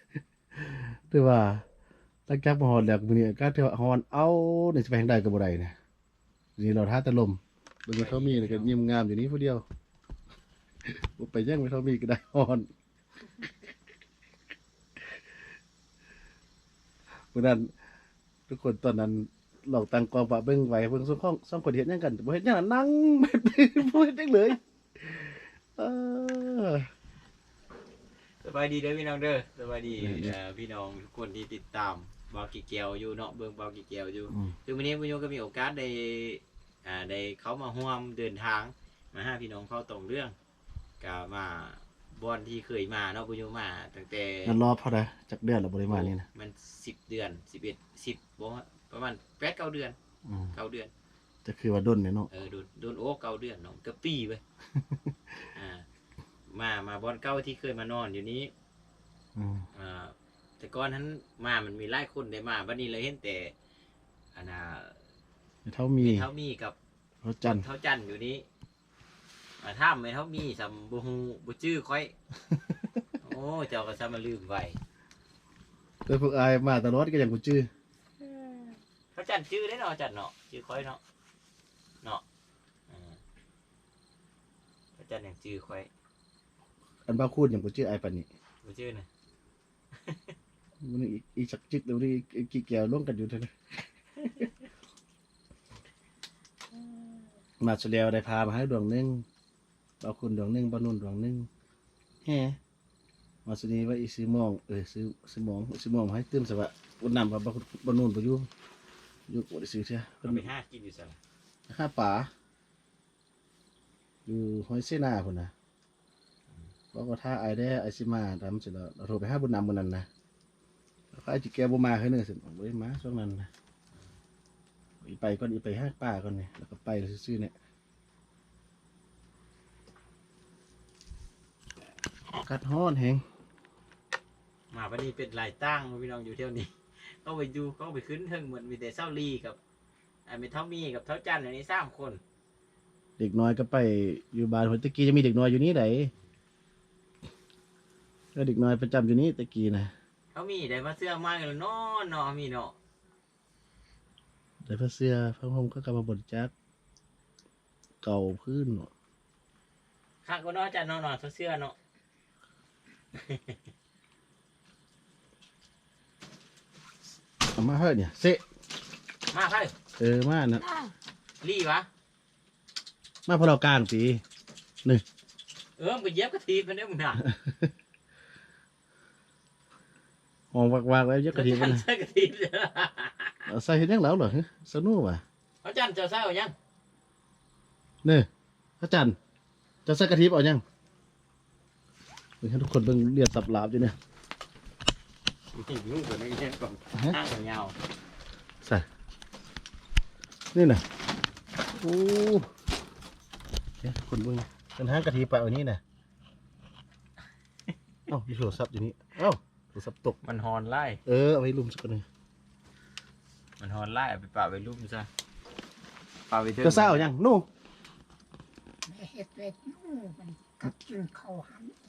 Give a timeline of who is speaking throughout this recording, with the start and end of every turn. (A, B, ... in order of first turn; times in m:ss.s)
0:00.6-0:01.6 A
0:02.3-0:05.8 A
0:06.6-0:09.6 A
0:07.9-0:08.7 B
0:10.8-0:12.7 A
0:17.3-0:17.7 A
0:18.5-0:26.9 A
0:28.4-0:40.4 B
0:30.0-0:30.4 A
0:41.0-0:44.6 B
0:44.4-0:46.2 A
0:45.9-0:50.0 B
0:50.3-0:50.5 A
0:50.5-0:50.9 B
0:51.4-0:52.3 A
0:52.3-0:54.4 B
0:54.8-0:55.1 A
0:55.6-0:55.8 B
0:56.5-0:58.5 B
0:59.4-0:59.7 A
0:59.8-1:03.5 B
1:04.4-1:05.0 B
1:05.7-1:06.3 A
1:06.0-1:06.8 B
1:07.2-1:07.6 A
1:07.5-1:08.4 B
1:09.6-1:12.1 B
1:13.2-1:14.8 B
1:16.1-1:17.7 A
1:18.2-1:21.0 B
1:22.9-1:23.2 B
1:25.0-1:25.9 B
1:27.1-1:28.3 A
1:28.6-1:29.1 B
1:30.1-1:30.3 B
1:30.8-1:33.5 A
1:34.2-1:34.5 A
1:37.6-1:39.2 A
1:40.0-1:41.5 A
1:42.2-1:42.6 A
1:43.4-1:48.5 A
1:49.3-1:50.5 A
1:50.2-1:51.2 B
1:51.7-1:52.3 A
1:54.3-1:55.5 A
1:56.9-2:00.1 A
2:01.1-2:03.5 A
2:05.0-2:07.5 A
2:12.4-2:13.2 A
2:14.7-2:19.6 B
2:20.3-2:22.2 B
2:23.2-2:26.1 A
2:28.4-2:29.9 A
2:30.3-2:32.8 B
2:34.6-2:36.5 A
2:38.0-2:38.9 A
2:40.2-2:41.8 B
2:43.1-2:43.6 B
2:47.6-2:48.4 A
2:49.3-2:49.8 B
2:50.0-2:50.6 A
2:50.6-2:50.9 C
2:51.4-2:51.9 B
2:53.3-2:54.2 A
2:55.8-2:57.3 B
2:57.3-2:57.7 A
3:00.5-3:01.8 A
3:01.3-3:03.5 B
3:03.5-3:05.2 A
3:05.6-3:06.5 B
3:08.8-3:09.2 A
3:09.9-3:10.6 A
3:12.4-3:14.0 A
3:15.5-3:17.8 B
3:20.5-3:20.8 A
3:21.8-3:22.5 A
3:23.8-3:25.8 A
3:28.1-3:30.2 A
3:30.2-3:31.0 B
3:31.1-3:32.0 A
3:33.6-3:35.1 B
3:36.3-3:37.1 B
3:36.6-3:37.5 A
3:38.9-3:41.7 C